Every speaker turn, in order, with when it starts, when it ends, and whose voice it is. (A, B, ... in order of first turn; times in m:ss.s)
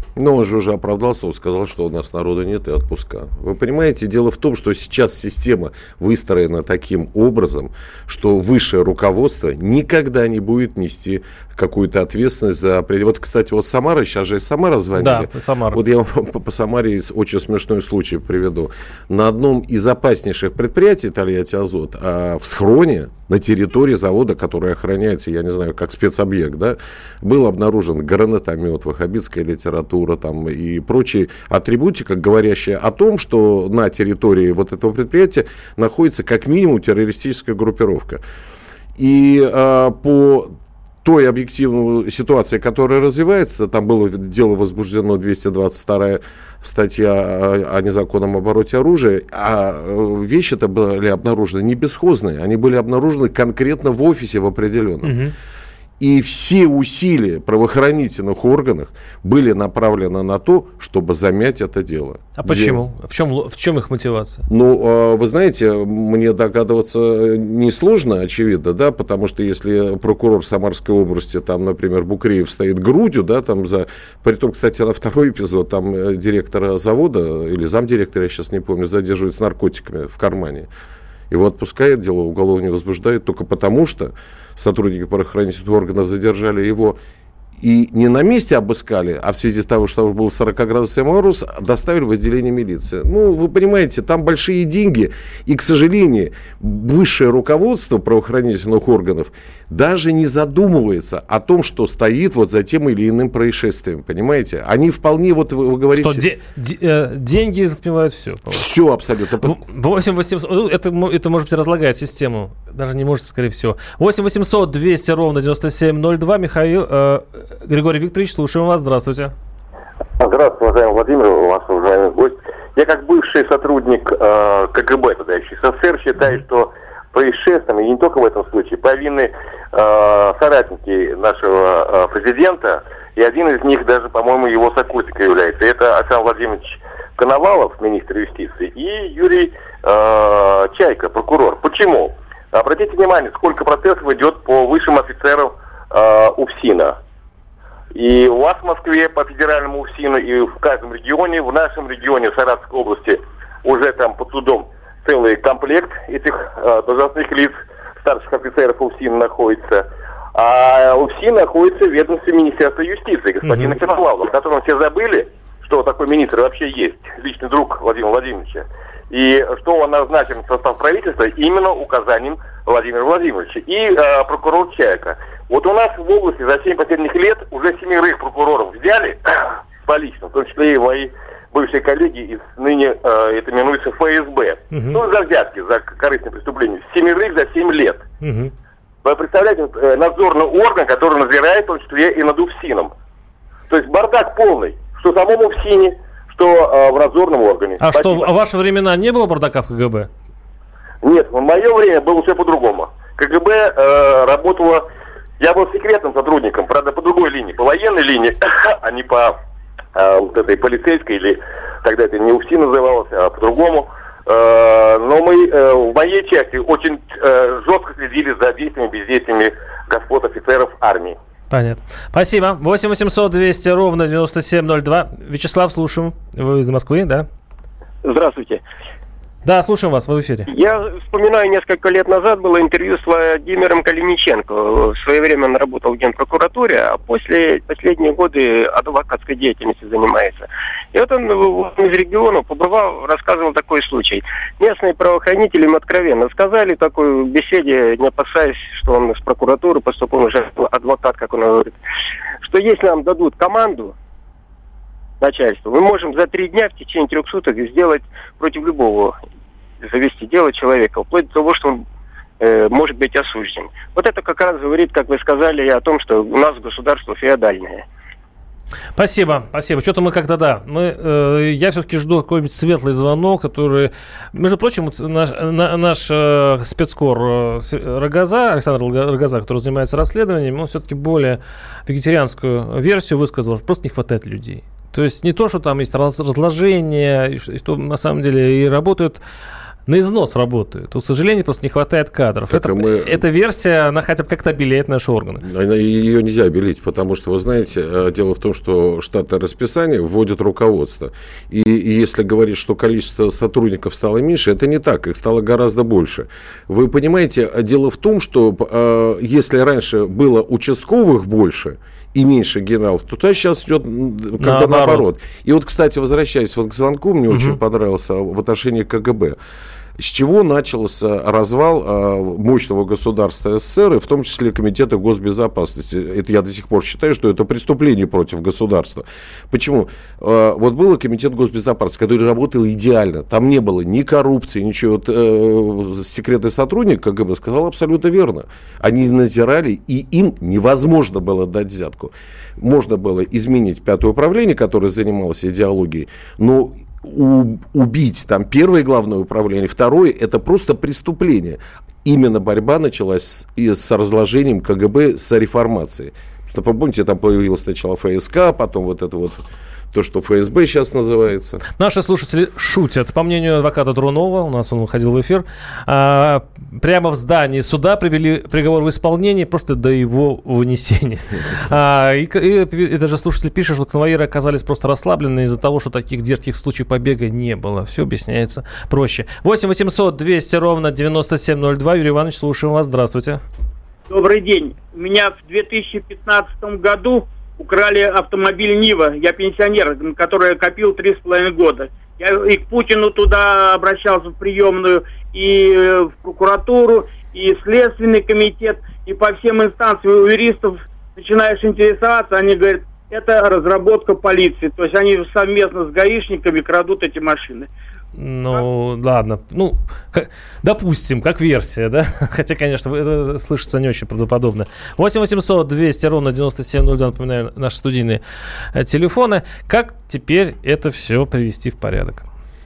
0:00.2-0:38.2 A
0:15.0-0:15.8 B
0:39.0-0:40.5 A
0:41.0-0:55.2 A
0:55.0-0:55.3 B
0:56.0-1:02.8 A
1:02.4-1:04.5 B
1:04.5-1:20.7 A
1:21.3-1:27.0 A
1:27.6-1:46.3 A
1:46.0-1:48.6 B
1:48.5-1:49.6 A
1:49.4-1:59.3 B
2:00.2-2:27.0 C
2:27.9-3:08.0 C
2:43.4-2:43.7 B
3:04.7-3:05.0 B
3:08.2-3:08.5 B
3:09.0-3:12.9 C
3:13.7-3:18.3 C
3:17.8-3:20.1 B
3:21.0-3:24.9 C
3:25.4-3:29.4 C
3:30.0-3:41.2 C
3:41.5-3:47.3 B
3:48.0-3:48.6 D
3:49.4-3:50.5 B
3:50.5-4:11.8 D
4:12.4-4:13.9 D
4:15.2-4:19.2 D
4:19.8-4:21.8 D
4:22.4-4:27.8 D
4:29.0-4:49.2 B
4:49.9-4:55.4 B
4:52.5-4:53.2 A
4:55.4-5:19.4 A
5:14.4-5:15.1 B
5:17.3-5:17.6 B
5:20.0-6:01.6 A
6:01.8-6:23.4 B
6:24.1-6:47.7 E
6:48.2-6:58.2 B
6:58.7-7:02.2 B